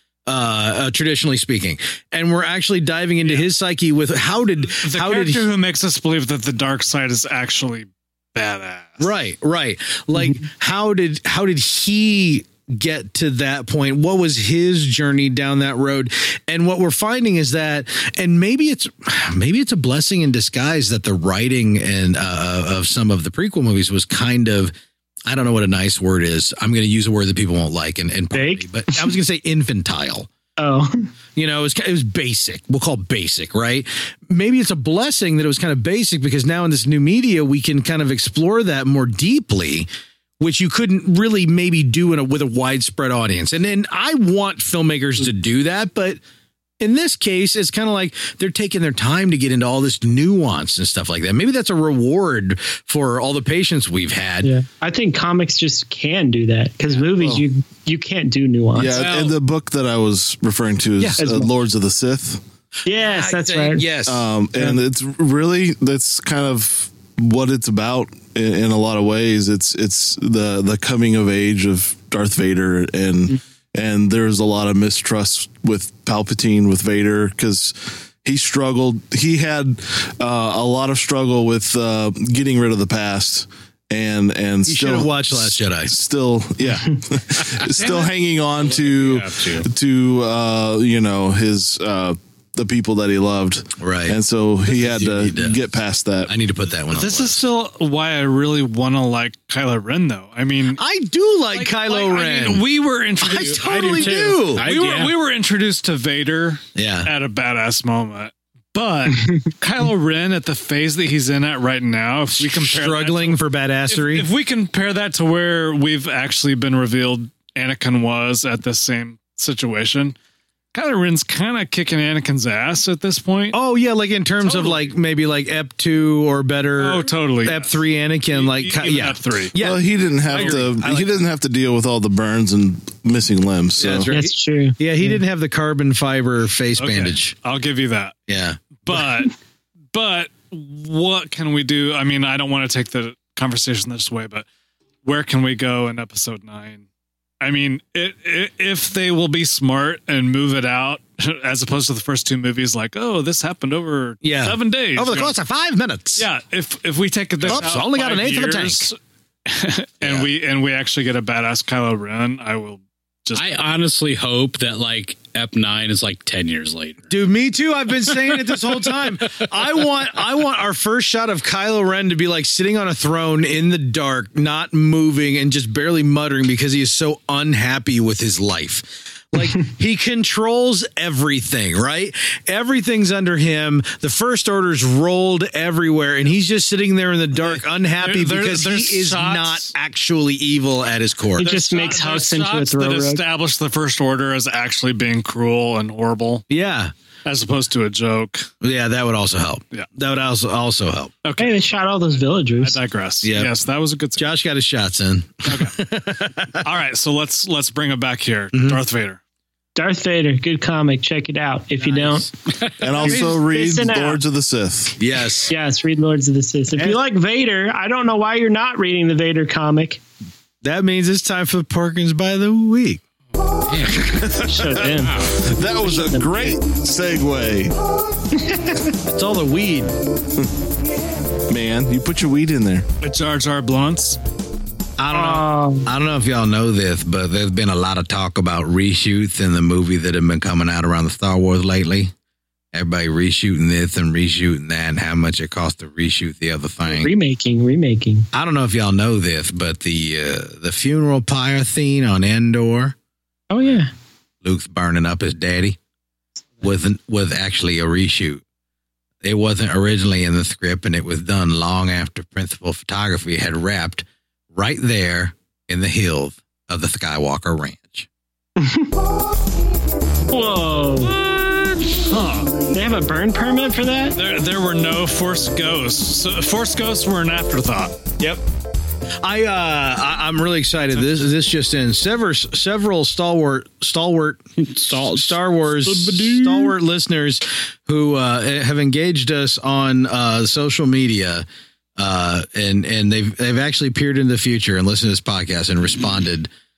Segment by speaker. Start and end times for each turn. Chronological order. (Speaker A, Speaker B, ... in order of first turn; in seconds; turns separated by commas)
Speaker A: 0.2-5.5, Speaker B: 4.6-9.1, Speaker A: 9.0-24.7, Speaker A: 25.3-30.3, Speaker C: 28.3-29.1, Speaker C: 30.6-31.1, Speaker A: 31.4-39.9, Speaker A: 40.4-46.2, Speaker A: 46.8-54.5, Speaker C: 54.4-59.0, Speaker D: 57.2-57.4, Speaker D: 58.8-62.4, Speaker E: 58.9-59.3, Speaker A: 59.0-59.3, Speaker C: 61.2-61.5, Speaker C: 62.8-63.9, Speaker A: 62.9-64.3, Speaker D: 64.0-96.3, Speaker A: 84.7-85.9, Speaker B: 87.8-88.1, Speaker E: 88.6-89.7, Speaker A: 93.8-95.6, Speaker A: 96.2-97.4, Speaker B: 96.9-100.8, Speaker A: 100.7-102.7, Speaker B: 101.5-120.2, Speaker A: 103.2-104.7, Speaker E: 103.2-105.1, Speaker A: 106.7-107.1, Speaker A: 112.4-114.3, Speaker B: 120.7-123.5, Speaker A: 123.5-131.2, Speaker B: 124.4-124.9, Speaker B: 126.8-127.8, Speaker B: 128.3-129.5, Speaker D: 129.6-134.1, Speaker B: 130.3-130.6, Speaker A: 133.8-137.3, Speaker C: 134.1-135.2, Speaker B: 136.8-138.2, Speaker A: 138.3-138.6, Speaker B: 138.8-139.3, Speaker B: 139.9-144.4, Speaker B: 145.0-146.8, Speaker B: 147.4-155.3, Speaker A: 154.2-156.3, Speaker B: 156.2-158.9, Speaker A: 157.4-158.9, Speaker B: 159.4-163.5, Speaker A: 160.0-160.3, Speaker E: 163.3-167.1, Speaker A: 167.1-191.5, Speaker B: 187.5-189.7, Speaker C: 191.4-193.2, Speaker B: 191.4-196.4, Speaker A: 196.5-196.9, Speaker B: 197.2-198.5, Speaker A: 198.6-201.2, Speaker B: 201.2-201.6, Speaker C: 201.4-202.8, Speaker B: 202.6-204.2, Speaker A: 203.2-203.5, Speaker A: 204.2-206.7, Speaker B: 205.4-205.7, Speaker B: 206.6-209.2, Speaker A: 208.5-208.8, Speaker C: 209.8-212.3, Speaker A: 211.8-212.3, Speaker D: 212.8-215.0, Speaker C: 213.0-214.2, Speaker A: 215.0-215.5, Speaker C: 215.5-220.0, Speaker A: 220.6-223.0, Speaker E: 223.4-224.2, Speaker D: 224.1-224.8, Speaker C: 224.4-226.6, Speaker E: 224.8-225.4, Speaker D: 225.4-227.7, Speaker C: 228.3-228.9, Speaker A: 229.0-229.9, Speaker D: 231.5-232.8, Speaker B: 233.0-234.2, Speaker A: 235.0-242.1, Speaker C: 235.1-235.9, Speaker A: 242.7-247.1, Speaker C: 246.8-248.3, Speaker A: 248.3-252.9, Speaker C: 253.5-253.9, Speaker A: 254.4-255.8, Speaker A: 256.6-258.4, Speaker A: 259.2-268.1, Speaker C: 268.6-268.9, Speaker C: 270.3-271.2, Speaker B: 272.1-272.6, Speaker C: 272.7-274.2, Speaker B: 274.1-278.0, Speaker A: 279.2-284.4, Speaker E: 284.6-286.8, Speaker A: 284.9-291.4, Speaker A: 292.0-296.5